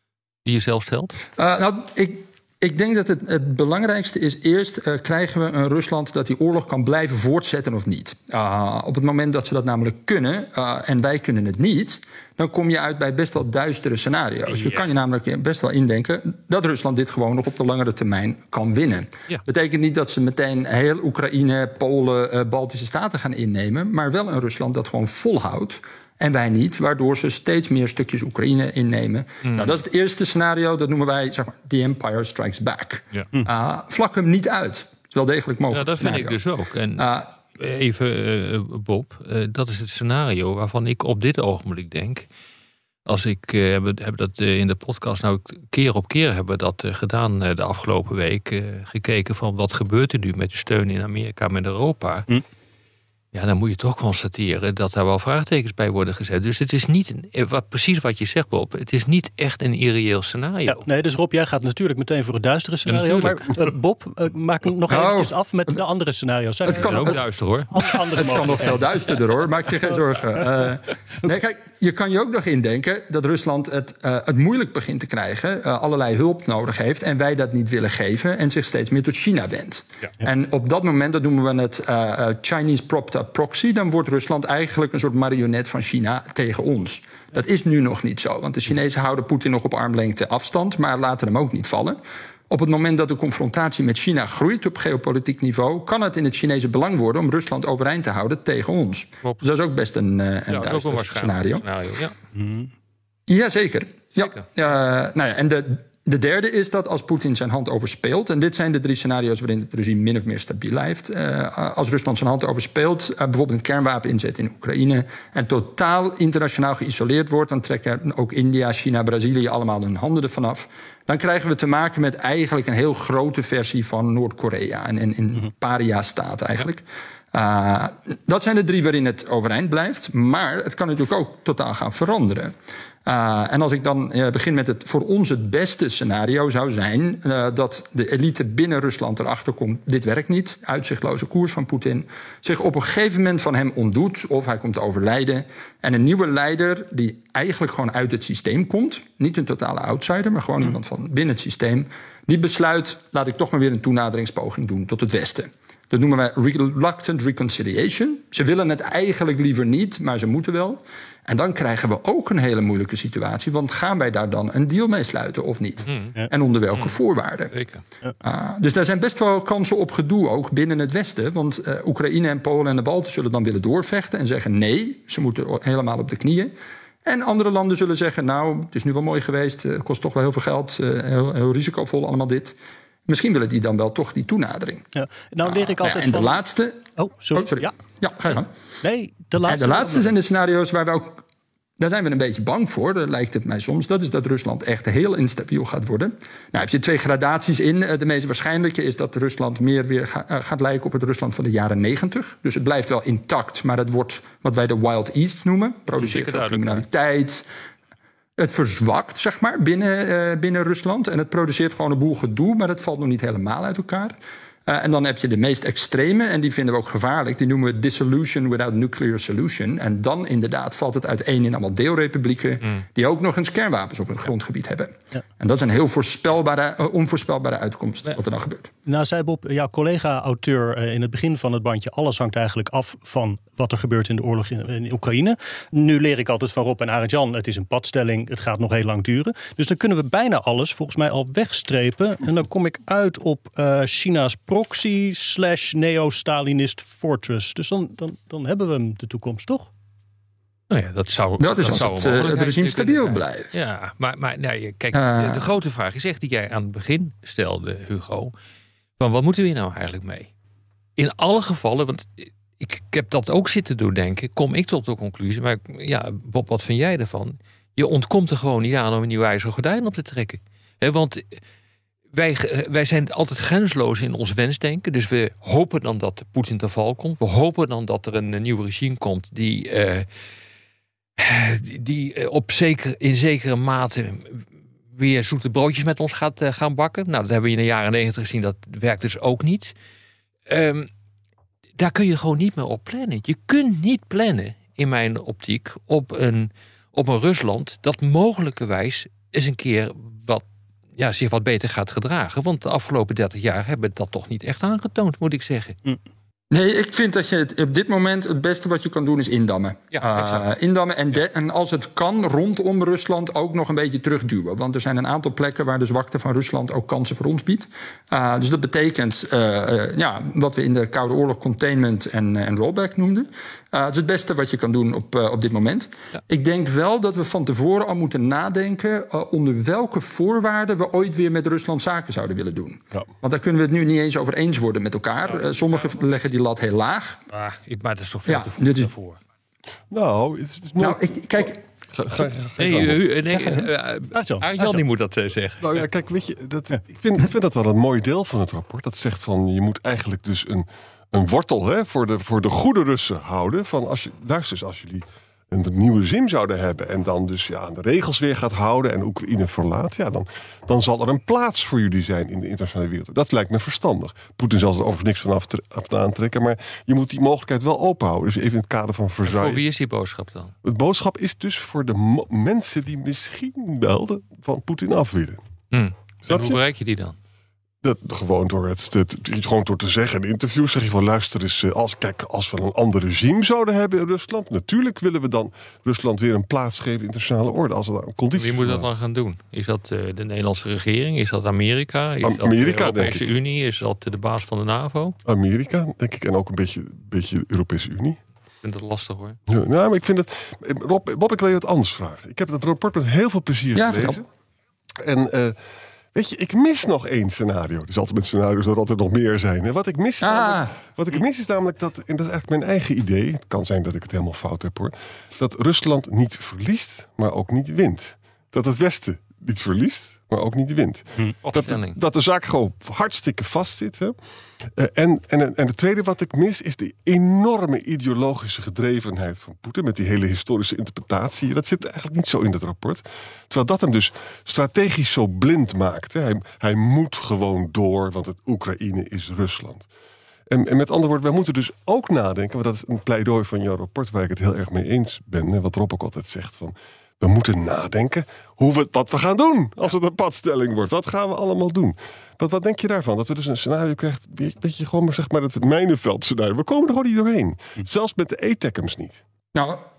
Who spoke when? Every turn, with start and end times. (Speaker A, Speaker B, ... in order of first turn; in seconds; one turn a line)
Speaker A: 0.4-1.2
Speaker B: 1.4-36.4
Speaker A: 14.5-14.9
Speaker A: 29.4-29.8
Speaker A: 35.7-42.3
Speaker B: 37.0-37.3
Speaker A: 43.0-52.3
Speaker A: 53.3-60.9
Speaker C: 60.6-68.9
Speaker A: 62.9-63.5
Speaker B: 64.9-65.8
Speaker B: 66.6-67.2
Speaker A: 66.7-68.8
Speaker B: 67.8-92.0
Speaker B: 92.5-101.6
Speaker A: 100.5-102.1
Speaker C: 102.3-102.7
Speaker B: 103.3-132.5
Speaker A: 104.2-104.5
Speaker B: 133.1-167.5
Speaker A: 165.9-166.2
Speaker A: 167.5-167.8
Speaker B: 168.2-176.5
Speaker B: 177.0-182.6
Speaker B: 183.1-184.9
Speaker C: 184.9-186.4
Speaker B: 185.4-188.5
Speaker C: 186.9-187.8
Speaker C: 188.3-190.2
Speaker B: 189.4-191.2
Speaker B: 191.8-207.4
Speaker A: 206.0-206.8
Speaker B: 208.4-214.2
Speaker B: 214.7-228.7
Speaker C: 228.8-249.7
Speaker A: 250.7-258.3
Speaker B: 251.4-253.5
Speaker B: 254.9-255.5
Speaker A: 259.0-260.3
Speaker A: 261.0-271.4
Speaker A: 272.1-280.1
Speaker A: 281.2-289.7
Speaker A: 290.5-290.9
Speaker A: 291.8-300.4
Speaker A: 300.9-305.8
Speaker B: 306.5-337.2
Speaker A: 309.9-310.5
Speaker A: 335.2-336.3
Speaker A: 337.3-339.2
Speaker B: 338.2-338.9
Speaker D: 339.9-343.0
Speaker B: 340.8-341.6
Speaker A: 342.6-345.8
Speaker C: 342.8-344.8
Speaker D: 345.6-369.6
Speaker A: 369.2-370.5
Speaker D: 370.6-375.4
Speaker A: 375.7-377.1
Speaker D: 376.2-376.6
Speaker D: 377.8-388.9
Speaker A: 388.3-395.1
Speaker D: 392.2-393.3
Speaker D: 395.2-398.2
Speaker A: 398.6-399.4
Speaker D: 399.5-404.2
Speaker B: 403.7-404.2
Speaker D: 405.0-405.6
Speaker D: 406.1-439.9
Speaker B: 410.2-410.8
Speaker A: 421.4-422.0
Speaker D: 440.5-459.2
Speaker B: 459.5-459.8